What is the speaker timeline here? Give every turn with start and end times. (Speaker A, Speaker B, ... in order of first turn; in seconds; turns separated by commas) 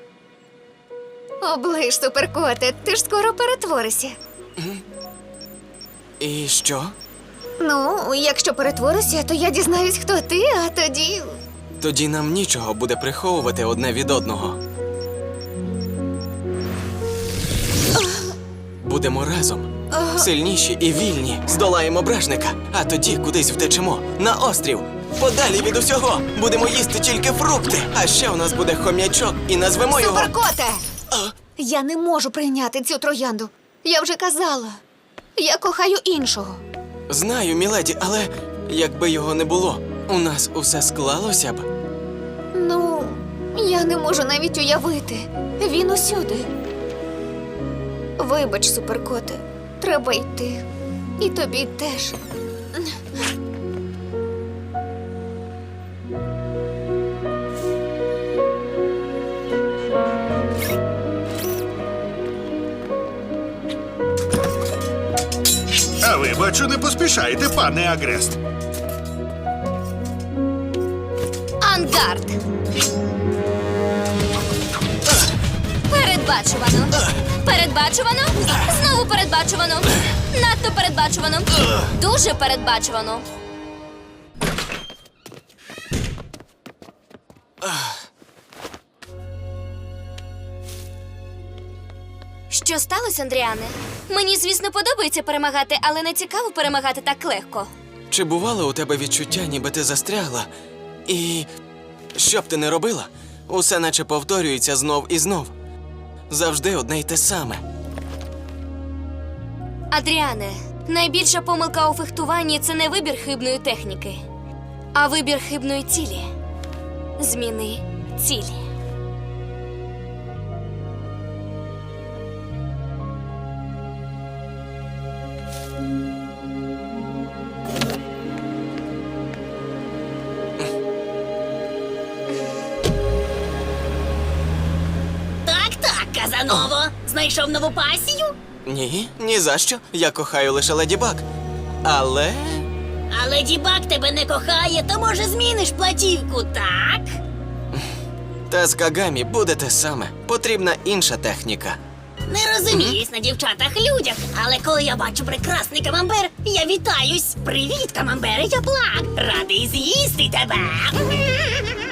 Speaker A: 1.4-4.2, Speaker B: 4.6-4.8, Speaker B: 6.2-6.9, Speaker A: 7.6-11.3, Speaker B: 11.8-14.6, Speaker B: 18.8-30.3, Speaker A: 19.9-20.3, Speaker A: 29.9-30.8, Speaker A: 31.6-34.8, Speaker A: 35.4-36.6, Speaker B: 37.1-41.7, Speaker A: 42.5-46.5, Speaker A: 48.2-50.6, Speaker A: 51.2-52.2, Speaker A: 52.7-53.0, Speaker C: 66.0-68.4, Speaker D: 71.6-72.4, Speaker D: 75.9-83.2, Speaker D: 92.5-97.7, Speaker B: 98.1-100.5, Speaker B: 101.0-101.5, Speaker B: 102.1-105.5, Speaker B: 106.3-107.6, Speaker D: 109.9-114.2, Speaker D: 114.9-116.2, Speaker D: 117.2-118.5, Speaker E: 135.4-138.3, Speaker B: 138.7-141.2, Speaker B: 141.8-142.7, Speaker E: 143.1-147.1, Speaker B: 148.5-151.8, Speaker E: 152.3-161.2, Speaker B: 152.7-153.0